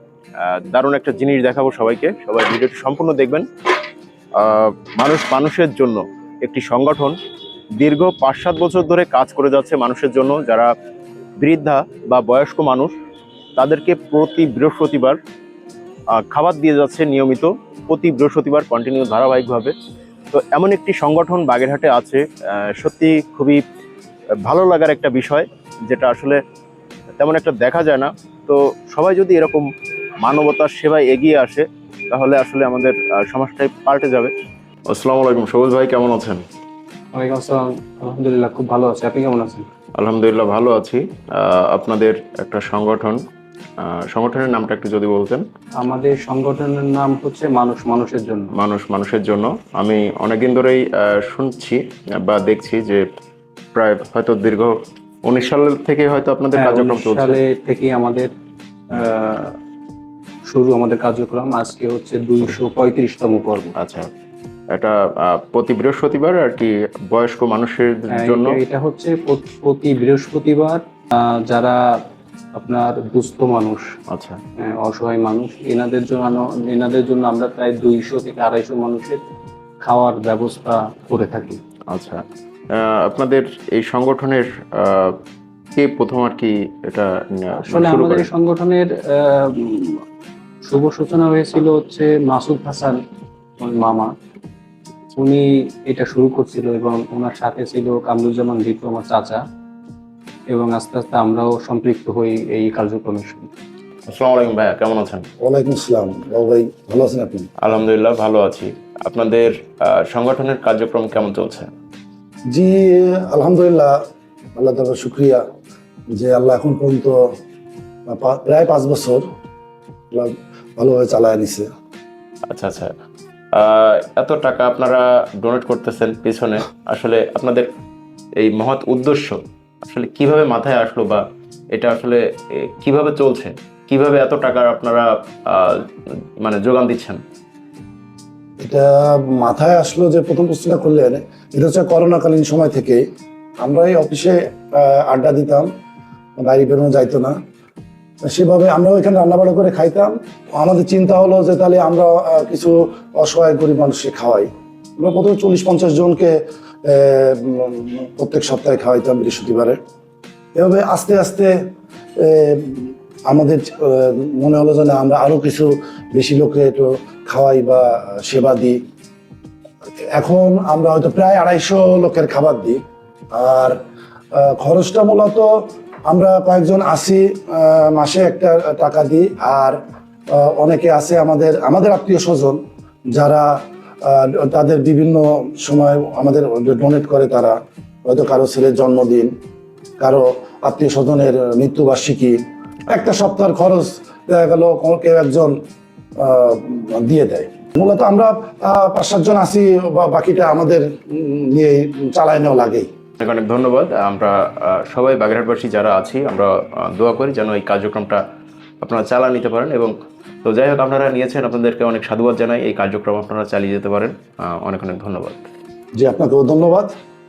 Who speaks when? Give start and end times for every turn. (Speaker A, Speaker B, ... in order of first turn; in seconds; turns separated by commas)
Speaker A: 0.4-3.5, Speaker A: 4.4-7.2, Speaker A: 7.8-10.7, Speaker A: 11.4-12.9, Speaker A: 13.6-15.2, Speaker A: 16.1-19.7, Speaker A: 20.3-23.6, Speaker A: 24.4-26.4, Speaker A: 27.2-29.6, Speaker A: 30.2-34.3, Speaker A: 34.9-36.4, Speaker B: 37.1-39.6, Speaker A: 40.0-43.2, Speaker A: 43.8-45.4, Speaker B: 45.8-48.5, Speaker A: 48.6-53.0, Speaker A: 53.7-54.7, Speaker A: 55.2-57.4, Speaker B: 56.5-58.3, Speaker B: 58.9-59.5, Speaker B: 60.5-63.7, Speaker A: 63.8-64.1, Speaker A: 64.7-68.6, Speaker B: 68.1-71.8, Speaker B: 72.5-73.9, Speaker A: 74.1-74.4, Speaker B: 74.6-79.2, Speaker B: 79.8-81.6, Speaker A: 81.9-82.2, Speaker A: 82.7-85.2, Speaker A: 85.8-88.3, Speaker B: 87.7-90.0, Speaker B: 90.7-93.0, Speaker B: 93.6-94.1, Speaker B: 95.1-99.4, Speaker B: 100.5-103.5, Speaker A: 104.1-105.2, Speaker C: 105.4-107.5, Speaker A: 107.6-111.7, Speaker C: 112.5-114.0, Speaker C: 114.5-115.4, Speaker C: 116.2-117.2, Speaker C: 118.1-119.2, Speaker C: 120.1-121.7, Speaker A: 122.5-122.9, Speaker A: 123.5-127.7, Speaker A: 128.4-131.2, Speaker A: 131.7-135.8, Speaker A: 136.4-137.2, Speaker C: 138.6-143.0, Speaker C: 143.6-145.7, Speaker C: 146.4-147.3, Speaker C: 148.3-154.5, Speaker C: 155.0-159.8, Speaker C: 160.5-161.5, Speaker C: 162.2-168.8, Speaker C: 170.2-172.8, Speaker C: 173.3-173.8, Speaker C: 174.3-175.5, Speaker C: 176.1-179.8, Speaker C: 180.3-182.6, Speaker C: 183.1-183.5, Speaker C: 184.0-189.3, Speaker C: 190.0-195.5, Speaker C: 196.2-202.9, Speaker A: 203.2-208.2, Speaker A: 208.8-209.9, Speaker A: 210.4-215.4, Speaker C: 216.0-216.9